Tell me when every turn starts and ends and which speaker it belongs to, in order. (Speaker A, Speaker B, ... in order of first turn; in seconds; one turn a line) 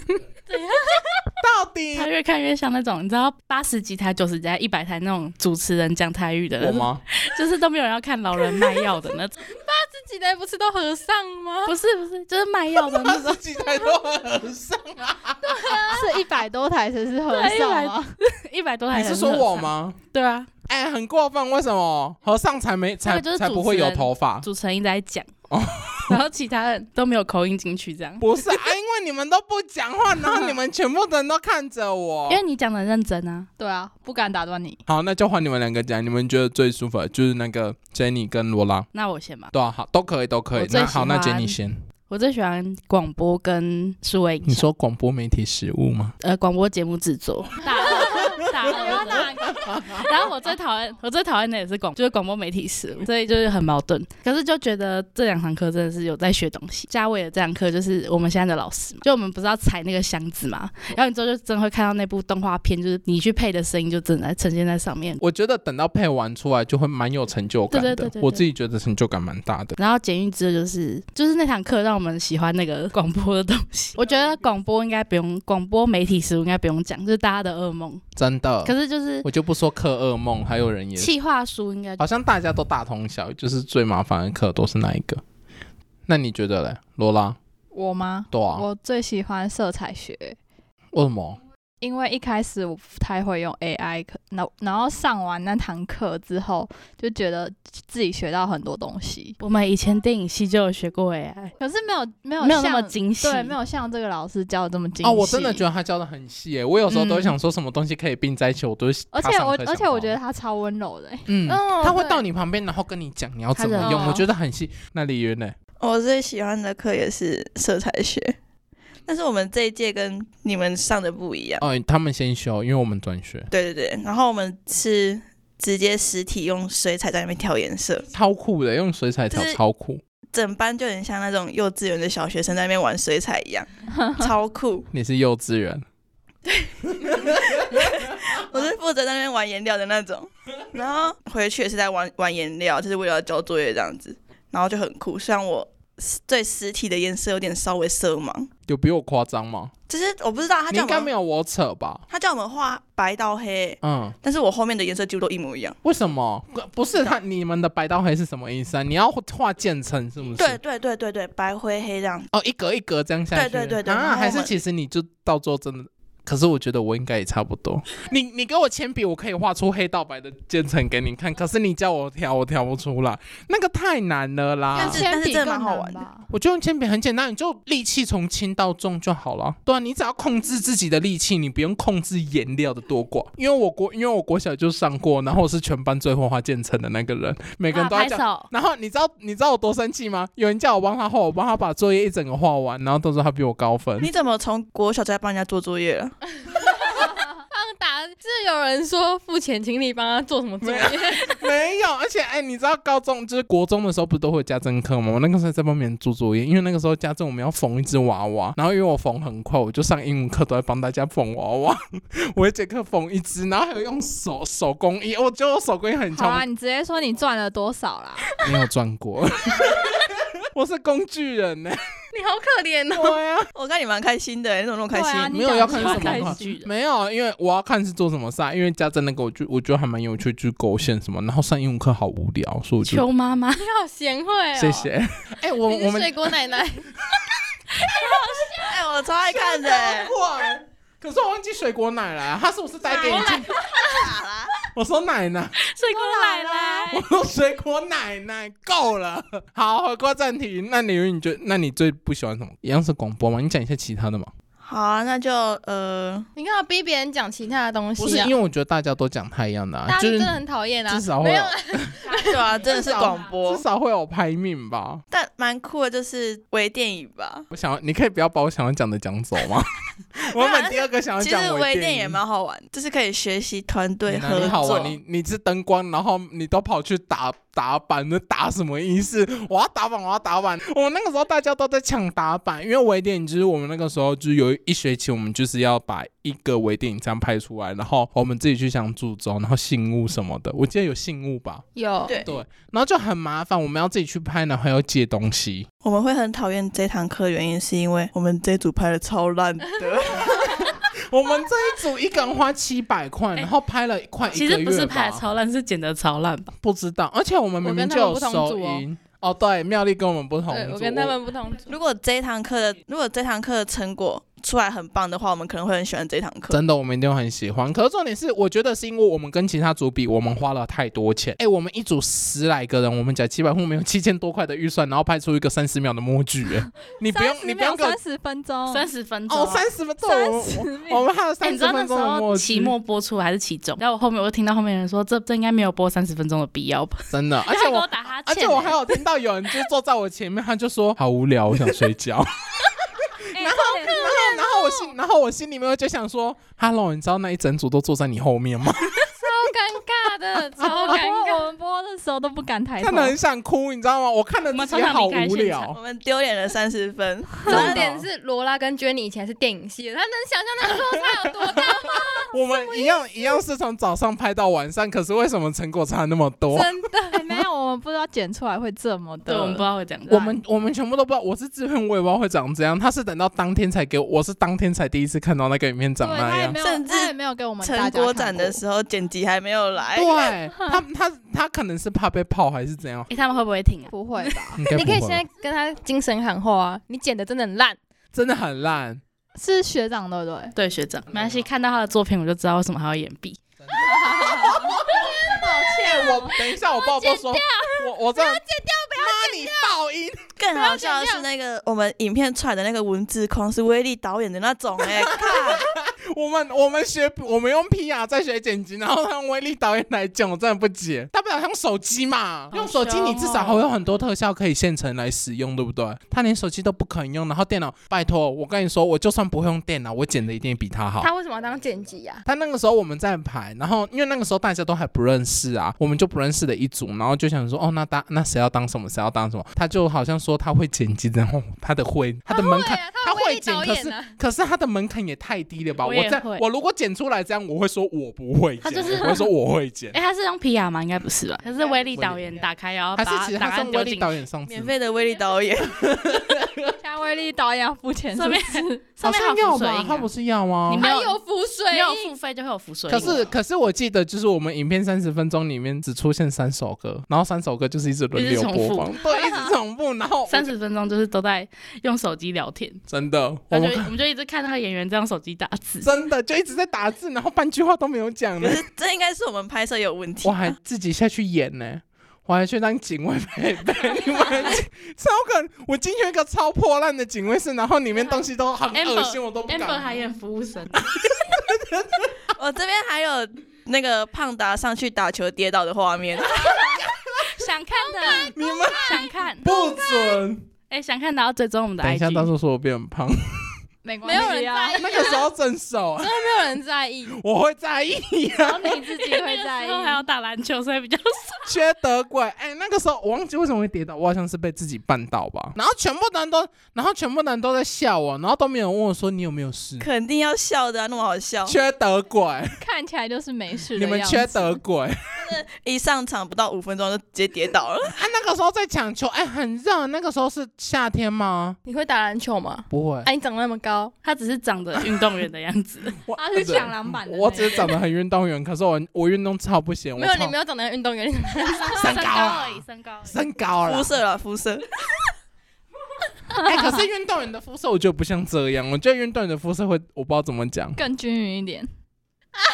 Speaker A: 0.5-1.2
Speaker B: 1.4-2.1
Speaker C: 1.9-9.3
Speaker B: 6.6-7.0
Speaker A: 9.5-11.7
Speaker C: 11.7-13.4
Speaker B: 12.8-15.8
Speaker A: 15.4-16.1
Speaker D: 15.9-18.1
Speaker C: 17.3-20.5
Speaker B: 18.9-20.0
Speaker B: 20.7-24.4
Speaker C: 23.0-25.3
Speaker B: 25.5-26.2
Speaker C: 26.1-28.6
Speaker B: 28.2-32.4
Speaker C: 32.3-33.5
Speaker D: 33.6-34.8
Speaker B: 34.9-38.9
Speaker C: 38.9-39.5
Speaker B: 39.5-41.8
Speaker C: 40.5-41.5
Speaker C: 42.1-44.7
Speaker B: 44.4-46.1
Speaker C: 46.2-65.2
Speaker D: 47.6-49.6
Speaker B: 49.6-50.0
Speaker B: 65.2-69.7
Speaker C: 67.7-68.5
Speaker C: 69.8-78.0
Speaker B: 78.2-81.1
Speaker C: 78.6-79.2
Speaker C: 81.0-82.0
Speaker B: 82.0-85.2
Speaker B: 86.1-87.4
Speaker D: 87.7-90.4
Speaker B: 88.3-88.7
Speaker B: 90.9-91.4
Speaker D: 91.8-99.3
Speaker C: 99.4-101.5
Speaker D: 101.6-105.7
Speaker C: 102.4-103.5
Speaker B: 105.0-110.2
Speaker C: 106.9-107.3
Speaker D: 109.1-111.3
Speaker B: 111.3-115.5
Speaker A: 111.5-112.2
Speaker C: 113.5-114.2
Speaker A: 113.8-114.2
Speaker E: 115.8-118.3
Speaker E: 119.1-121.6
Speaker B: 121.6-123.5
Speaker E: 123.5-128.1
Speaker B: 128.1-130.0
Speaker E: 129.3-129.6
Speaker E: 130.3-134.9
Speaker D: 134.0-134.3
Speaker B: 134.9-135.8
Speaker B: 137.0-137.8
Speaker E: 137.7-148.5
Speaker B: 148.7-149.7
Speaker E: 149.9-151.1
Speaker B: 150.7-152.0
Speaker E: 152.1-155.8
Speaker B: 153.8-154.1
Speaker B: 155.8-160.6
Speaker E: 160.3-162.3
Speaker B: 162.3-175.1
Speaker E: 163.3-164.5
Speaker E: 174.7-176.1
Speaker D: 174.8-176.3
Speaker B: 176.3-194.1
Speaker C: 187.7-188.5
Speaker E: 194.0-196.2
Speaker A: 196.6-201.4
Speaker B: 200.6-216.4
Speaker D: 216.1-218.4
Speaker B: 218.4-219.9
Speaker B: 220.5-221.8
Speaker A: 222.1-223.2
Speaker B: 222.9-223.5
Speaker E: 223.5-225.4
Speaker D: 224.9-226.5
Speaker B: 225.2-233.1
Speaker C: 225.7-226.7
Speaker C: 232.8-233.6
Speaker A: 233.6-234.9
Speaker B: 234.6-236.4
Speaker A: 235.7-236.9
Speaker A: 238.0-238.7
Speaker E: 238.6-240.2
Speaker B: 239.3-243.5
Speaker A: 242.9-244.1
Speaker E: 243.2-244.5
Speaker B: 244.7-245.6
Speaker C: 245.6-247.0
Speaker A: 245.9-246.9
Speaker B: 246.9-254.3
Speaker E: 254.6-256.3
Speaker A: 256.4-258.3
Speaker B: 258.0-262.1
Speaker A: 259.9-262.4
Speaker E: 262.1-263.6
Speaker B: 262.7-265.0
Speaker E: 265.1-267.5
Speaker B: 267.5-272.2
Speaker E: 270.3-274.9
Speaker B: 274.1-291.6
Speaker A: 291.8-292.2
Speaker B: 292.2-295.7
Speaker E: 295.8-300.6
Speaker B: 300.1-305.2
Speaker C: 304.3-306.5
Speaker B: 306.6-311.2
Speaker A: 307.6-308.8
Speaker A: 310.5-311.7
Speaker E: 311.7-316.6
Speaker B: 316.5-328.0
Speaker D: 327.0-328.9
Speaker C: 328.7-329.6
Speaker B: 329.3-332.7
Speaker D: 330.0-331.0
Speaker C: 331.4-339.0
Speaker B: 337.1-349.0
Speaker D: 343.4-344.1
Speaker A: 343.8-344.8
Speaker A: 349.1-351.5
Speaker B: 350.6-350.9
Speaker D: 350.6-353.1
Speaker B: 352.8-355.8
Speaker C: 354.5-355.7
Speaker E: 355.7-357.9
Speaker A: 357.4-362.9
Speaker B: 357.5-358.1
Speaker B: 361.2-361.6
Speaker B: 362.3-366.7
Speaker A: 366.5-367.3
Speaker D: 367.1-369.6
Speaker C: 369.3-370.4
Speaker B: 370.1-376.6
Speaker D: 376.0-378.6
Speaker E: 376.6-380.3
Speaker B: 379.9-383.1
Speaker C: 383.1-383.9
Speaker D: 383.9-384.6
Speaker B: 384.5-385.2
Speaker A: 384.7-387.8
Speaker B: 388.1-389.0
Speaker D: 389.4-390.5
Speaker C: 390.5-393.4
Speaker D: 393.8-396.2
Speaker B: 393.8-400.3
Speaker A: 394.1-394.6
Speaker A: 396.7-399.6
Speaker E: 400.4-405.6
Speaker A: 400.5-401.2
Speaker B: 404.8-421.1
Speaker C: 412.5-413.6
Speaker A: 421.0-422.2
Speaker B: 422.2-439.9
Speaker A: 432.3-434.1
Speaker C: 435.8-436.4
Speaker C: 438.6-439.3
Speaker C: 439.9-444.1
Speaker B: 441.9-442.2
Speaker B: 442.9-444.7
Speaker E: 444.5-445.8
Speaker B: 445.8-446.7
Speaker D: 446.8-448.9
Speaker C: 448.1-450.1
Speaker B: 449.0-450.8
Speaker C: 450.7-451.2
Speaker A: 450.8-452.1
Speaker C: 451.7-453.3
Speaker B: 452.9-460.5
Speaker C: 458.1-458.9
Speaker C: 460.3-462.8
Speaker B: 462.9-463.9
Speaker C: 463.5-465.9
Speaker B: 465.8-468.6
Speaker E: 468.4-470.5
Speaker B: 470.2-480.0
Speaker C: 478.7-480.9
Speaker B: 480.7-482.2
Speaker E: 482.3-486.9
Speaker B: 486.4-487.2
Speaker C: 487.3-489.4
Speaker A: 488.0-488.7
Speaker B: 488.1-490.4
Speaker A: 489.5-489.8
Speaker C: 490.7-492.3
Speaker B: 491.8-493.6
Speaker D: 493.8-495.1
Speaker A: 494.0-495.2
Speaker B: 494.7-496.5
Speaker A: 496.0-497.1
Speaker B: 497.1-499.0
Speaker D: 498.4-500.0
Speaker C: 499.0-501.5
Speaker B: 501.5-509.9
Speaker E: 509.8-511.6
Speaker B: 511.4-512.6
Speaker D: 512.6-514.6
Speaker B: 513.7-515.4
Speaker E: 515.2-518.0
Speaker B: 517.8-521.6
Speaker A: 521.6-523.9
Speaker B: 522.7-523.1
Speaker C: 524.0-526.0
Speaker B: 524.8-525.0
Speaker B: 526.0-530.3
Speaker D: 526.1-527.8
Speaker A: 530.0-531.9
Speaker C: 531.5-533.2
Speaker B: 531.8-533.9
Speaker E: 533.6-534.8
Speaker B: 536.4-540.8
Speaker D: 540.8-541.7